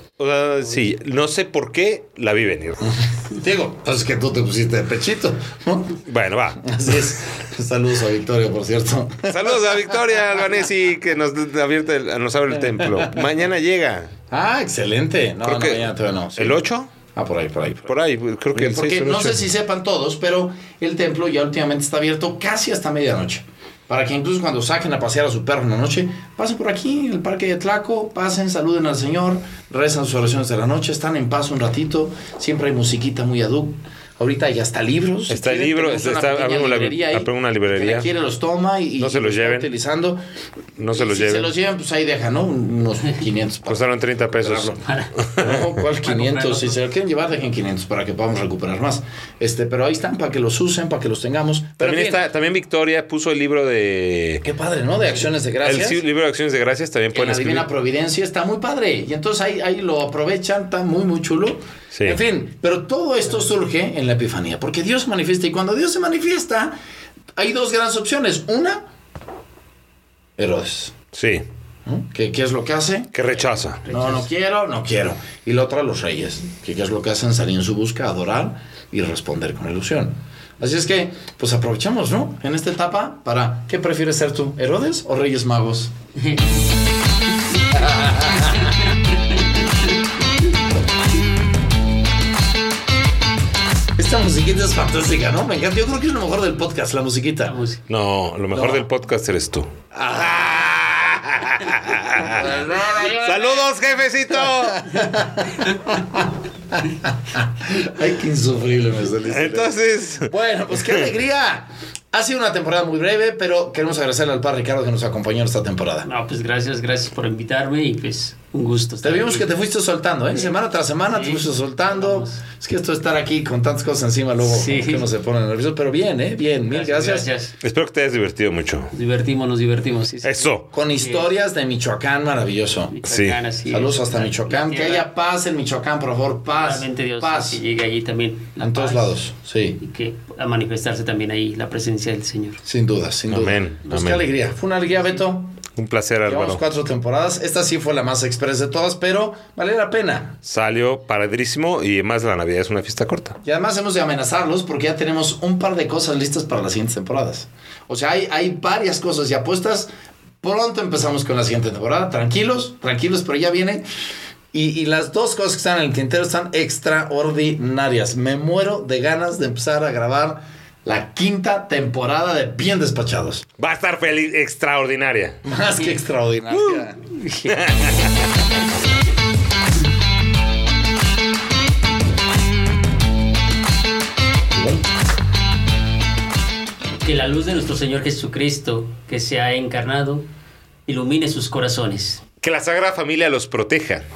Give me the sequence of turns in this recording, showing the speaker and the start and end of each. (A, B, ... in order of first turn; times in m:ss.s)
0:00.2-0:02.9 A
0:03.3-0:06.0 B
0:06.0-0:07.0 A
0:06.6-0:10.0 B
0:09.3-0:14.1 A
0:12.7-0:13.3 B
0:14.3-0:16.6 B
0:15.4-0:16.9 A
0:17.1-0:18.0 B
0:17.9-0:19.4 A
0:18.5-0:40.2 B
0:35.3-0:38.1 A
0:39.0-0:39.7 A
0:40.8-0:41.5 A
0:40.9-0:43.8 B
0:43.7-0:45.5 A
0:44.4-0:44.8 B
0:44.8-0:45.1 C
0:45.4-0:52.2 B
0:46.0-0:46.8 C
0:51.8-0:54.4 A
0:54.4-0:56.0 B
0:55.6-0:57.7 A
0:57.1-1:06.8 B
1:01.9-1:02.2 A
1:07.4-1:08.8 B
1:10.4-1:10.9 B
1:11.1-1:11.4 A
1:11.9-1:25.9 B
1:13.1-1:13.8 A
1:13.8-1:14.3 C
1:26.3-1:26.6 C
1:27.6-1:29.8 C
1:27.8-1:28.5 B
1:34.0-1:37.5 B
1:37.4-1:37.8 C
1:37.9-1:45.2 A
1:38.5-1:38.9 B
1:40.0-1:40.6 B
1:42.2-1:43.7 B
1:44.3-1:56.1 B
1:49.3-1:51.1 A
1:56.0-1:59.5 C
1:59.0-2:07.3 B
2:00.3-2:02.4 C
2:04.4-2:05.1 C
2:06.7-2:07.6 C
2:07.6-2:08.9 A
2:08.9-2:11.3 C
2:10.2-2:10.7 A
2:10.7-2:12.9 B
2:12.9-2:15.1 C
2:13.1-2:13.4 A
2:13.7-2:17.6 B
2:16.5-2:19.2 C
2:18.6-2:19.8 B
2:19.8-2:22.6 C
2:22.6-2:25.6 B
2:23.3-2:24.2 A
2:25.8-2:26.6 A
2:26.3-2:30.4 B
2:30.4-2:33.4 A
2:33.4-2:39.9 B
2:40.4-2:43.8 B
2:44.5-2:53.4 B
2:53.6-2:55.4 A
2:55.4-2:57.1 B
2:56.5-2:58.1 C
2:57.5-2:58.4 A
3:04.5-3:04.8 B
3:07.0-3:10.3 C
3:10.9-3:12.2 C
3:12.4-3:14.0 A